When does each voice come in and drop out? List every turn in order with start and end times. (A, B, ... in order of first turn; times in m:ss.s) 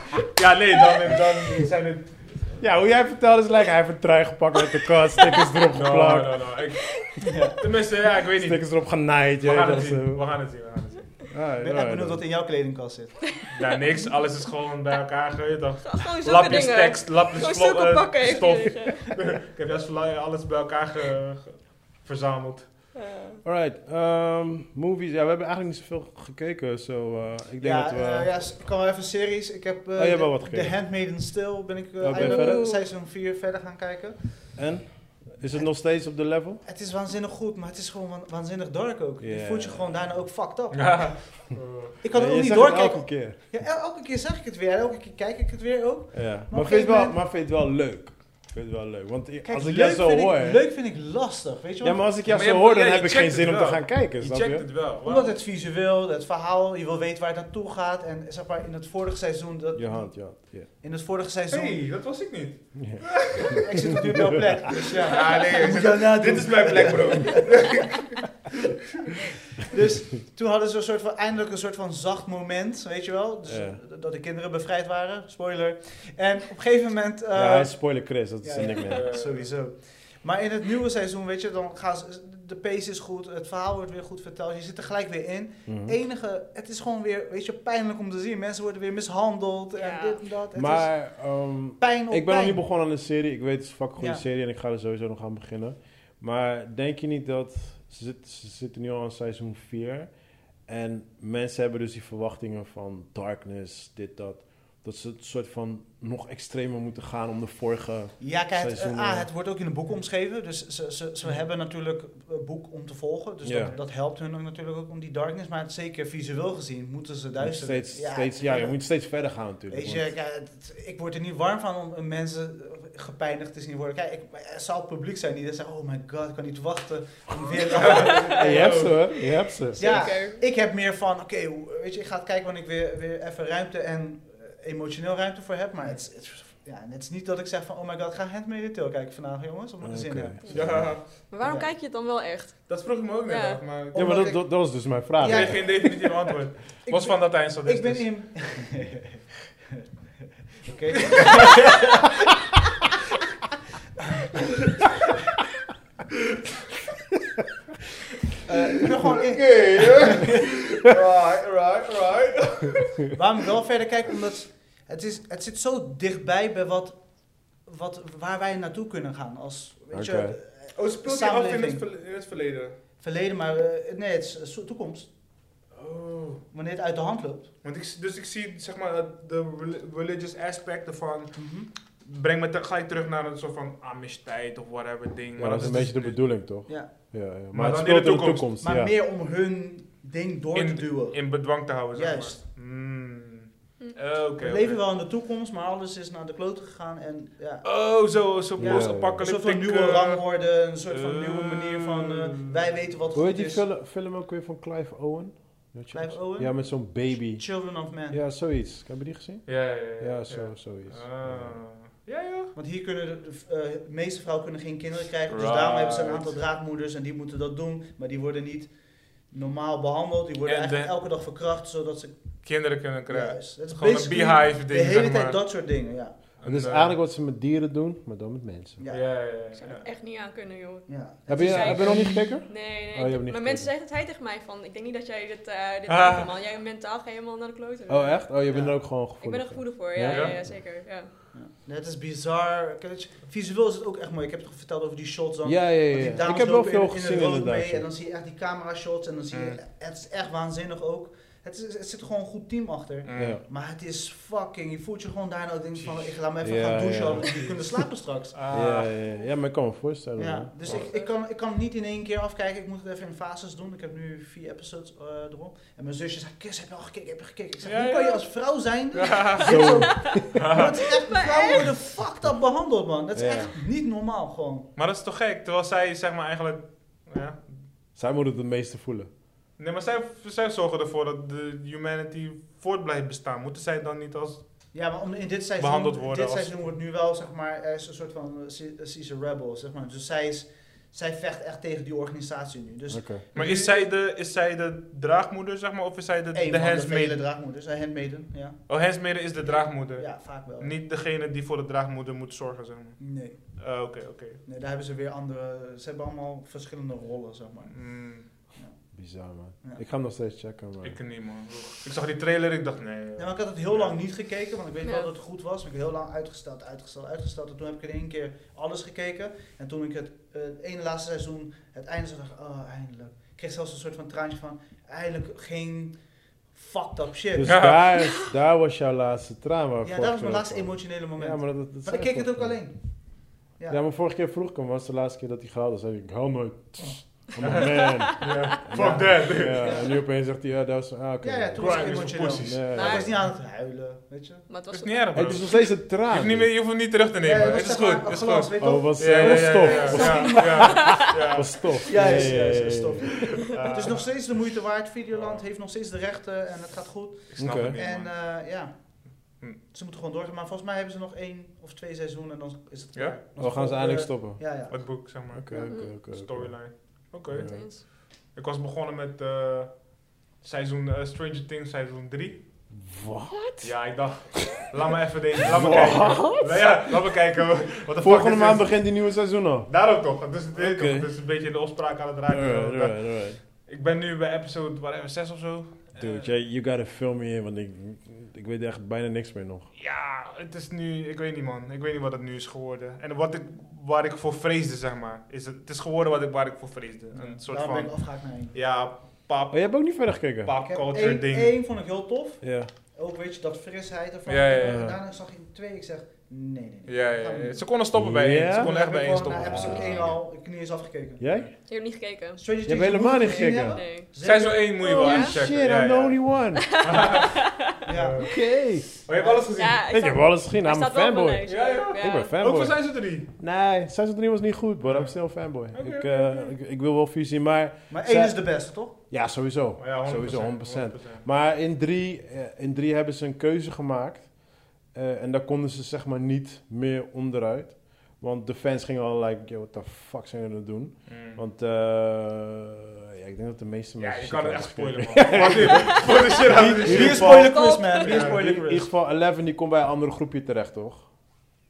0:00.3-0:02.5 A
0:02.6-0:06.5 B
0:05.7-0:08.8 A
0:07.2-0:07.6 C
0:08.4-0:10.2 B
0:09.4-0:11.2 A
0:11.3-0:12.2 B
0:11.6-0:13.2 C
0:13.5-0:22.7 A
0:15.8-0:19.2 D
0:23.0-0:23.4 D
0:23.4-0:28.3 B
0:27.6-0:34.7 C
0:30.0-0:30.8 B
0:32.0-0:32.7 B
0:32.2-0:32.8 D
0:34.6-0:36.6 B
0:35.5-0:35.8 C
0:36.6-0:41.4 C
0:39.2-0:40.2 B
0:40.7-0:42.0 A
0:42.0-0:47.2 C
0:42.1-0:43.4 B
0:46.1-0:50.6 B
0:49.4-0:52.3 C
0:51.8-0:54.7 B
0:52.3-0:55.3 A
0:55.0-1:01.8 C
0:59.8-1:00.7 B
1:01.5-1:03.7 A
1:02.8-1:04.6 B
1:03.3-1:07.8 C
1:04.8-1:08.2 A
1:09.6-1:31.0 C
1:13.5-1:13.8 B
1:17.3-1:19.1 B
1:18.8-1:19.5 A
1:25.7-1:25.9 B
1:29.8-1:30.2 D
1:30.6-1:40.1 B
1:31.8-1:32.6 C
1:40.7-1:49.3 B
1:48.2-1:58.8 C
1:53.4-1:53.7 B
1:57.4-2:00.1 B
1:59.7-2:08.8 C
2:07.7-2:09.1 A
2:08.4-2:09.9 B
2:09.8-2:10.4 D
2:09.8-2:20.9 C
2:19.8-2:20.9 B
2:20.5-2:21.0 A
2:21.3-2:23.6 D
2:21.4-2:21.7 C
2:22.7-2:24.3 A
2:23.9-2:26.2 C
2:23.9-2:25.7 B
2:25.2-2:28.1 A
2:26.9-2:29.9 C
2:30.6-2:32.3 C
2:31.2-2:31.6 A
2:38.4-2:40.4 C
2:38.8-2:43.0 A
2:43.1-2:51.8 C
2:49.9-2:50.4 B
2:50.8-2:52.8 A
2:53.0-2:55.1 C
2:55.8-2:56.4 A
2:56.5-2:57.5 C
2:57.6-3:01.4 A
3:01.4-3:01.7 C
3:02.0-3:06.3 A
3:05.4-3:08.9 B
3:07.5-3:08.5 A
3:08.6-3:12.4 C
3:10.6-3:14.8 A
3:14.4-3:17.9 C
3:17.6-3:22.8 A
3:18.6-3:19.2 B
3:18.6-3:23.6 C
3:23.1-3:31.6 B
3:25.9-3:28.2 C
3:29.5-3:32.5 A
3:32.6-3:38.7 C
3:35.3-3:36.4 A
3:39.3-3:42.2 C
3:40.5-3:40.9 A
3:42.4-3:45.4 A
3:43.1-3:46.1 C
3:46.4-3:47.0 A
3:46.4-3:48.8 B
3:48.8-3:49.1 C
3:48.9-3:49.9 A
3:49.6-3:58.3 D
3:50.9-3:52.2 C
3:51.3-3:53.7 B
3:55.9-3:56.3 A
3:57.9-4:00.6 B
3:58.5-3:58.8 C
3:59.2-4:01.1 D
4:00.1-4:00.4 A
4:01.3-4:18.4 C
4:05.4-4:07.9 B
4:09.3-4:09.6 A
4:13.0-4:13.4 A
4:13.1-4:13.4 B
4:15.8-4:16.1 A
4:16.4-4:17.5 B
4:18.3-4:18.9 A
4:18.5-4:20.8 B
4:20.2-4:34.7 C
4:27.6-4:28.2 A
4:28.9-4:29.6 A
4:29.4-4:30.5 B
4:29.7-4:30.2 D
4:30.3-4:31.0 A
4:30.9-4:31.7 D
4:33.2-4:33.6 B
4:34.8-4:37.6 A
4:38.0-4:39.1 B
4:39.6-4:44.4 A
4:44.7-4:53.9 C
4:45.6-4:46.6 A
4:52.9-4:53.2 B
4:53.3-4:57.2 A
4:56.3-4:58.6 C
4:58.7-5:04.4 A
5:00.0-5:00.7 C
5:03.0-5:03.4 C
5:04.5-5:07.9 C
5:07.7-5:08.3 A
5:08.9-5:11.0 B
5:10.8-5:14.0 A
5:13.2-5:26.0 C
5:26.5-5:27.8 C
5:27.4-5:32.6 B
5:27.4-5:27.8 A
5:29.8-5:32.7 C
5:33.7-5:43.1 B
5:37.6-5:38.4 D
5:38.2-5:39.8 A
5:38.7-5:39.9 C
5:41.2-5:44.5 C
5:41.6-5:42.6 A
5:42.7-5:43.1 D
5:44.5-5:45.6 D
5:44.7-5:52.3 A
5:45.1-5:46.5 B
5:47.2-5:51.1 C
5:48.6-5:53.4 B
5:49.7-5:51.0 D
5:51.8-5:59.0 C
5:53.5-5:54.2 A
5:55.2-5:55.4 A
5:57.3-5:58.2 A
5:57.4-5:57.8 B
5:59.7-6:05.7 C
6:03.4-6:04.4 B
6:04.7-6:12.4 A
6:05.3-6:07.7 B
6:05.7-6:06.0 D
6:07.4-6:07.8 D
6:12.7-6:14.4 B
6:13.6-6:18.9 A
6:15.4-6:17.0 B
6:18.0-6:19.7 B
6:19.7-6:26.3 A
6:20.5-6:21.1 B
6:22.3-6:23.4 B
6:26.0-6:29.7 B
6:29.8-6:41.5 A
6:37.1-6:38.6 C
6:39.5-6:40.5 B
6:40.6-6:47.6 C
6:42.4-6:42.7 B
6:44.3-6:44.8 A
6:44.6-6:45.0 B
6:46.9-6:50.1 A
6:47.9-6:48.7 B
6:48.5-6:51.2 C
6:49.4-6:50.0 B
6:49.6-6:50.1 D
6:51.2-6:51.5 B
6:51.7-6:52.4 D
6:52.4-6:54.9 C
6:52.7-6:53.8 B
6:53.2-6:55.4 D
6:54.2-6:56.2 A
6:55.0-6:56.7 B
6:56.7-6:57.8 D
6:56.8-6:58.3 A
6:57.8-6:58.3 C
6:58.2-6:59.0 B
6:59.0-6:59.8 A
6:59.2-6:59.5 C
6:59.5-7:02.3 D
6:59.9-7:14.4 B
7:01.5-7:03.3 A
7:04.8-7:06.3 A
7:07.9-7:09.0 C
7:09.8-7:11.2 A
7:14.9-7:27.5 B
7:21.1-7:21.4 A
7:24.0-7:27.4 A
7:26.6-7:28.9 C
7:27.2-7:28.2 D
7:28.0-7:28.4 A
7:28.0-7:31.1 B